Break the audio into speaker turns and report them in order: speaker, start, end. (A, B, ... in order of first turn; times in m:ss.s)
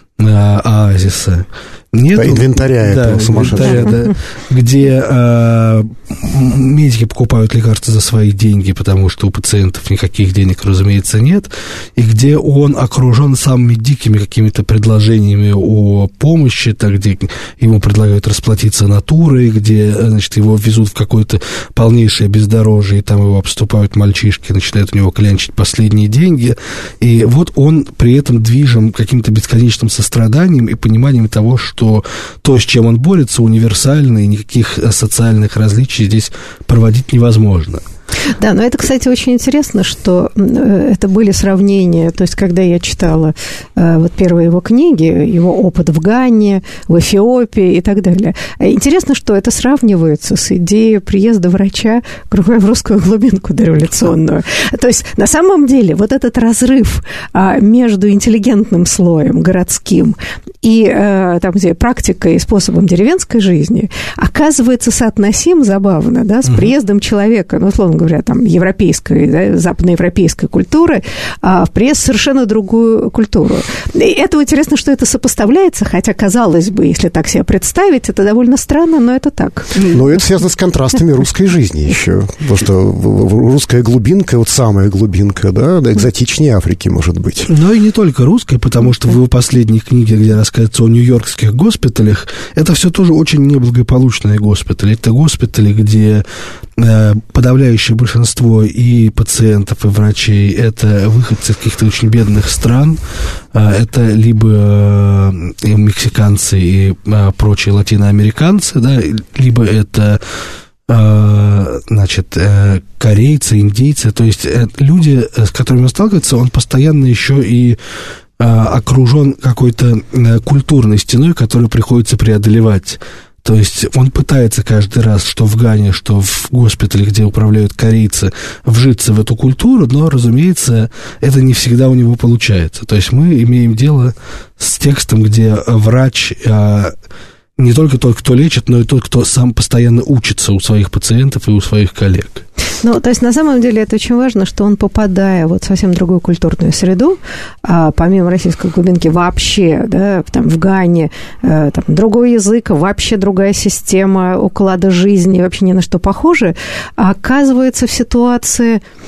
0:00.2-0:37.8 A
0:02.1-0:03.9 B
0:38.4-1:19.8 C
1:06.5-1:06.7 A
1:19.9-1:27.5 B
1:27.5-1:36.2 A
1:36.8-1:43.0 A
1:43.5-1:50.2 A
1:50.9-1:57.8 A
1:58.4-2:16.9 A
2:17.6-2:22.4 A
2:22.8-2:38.8 C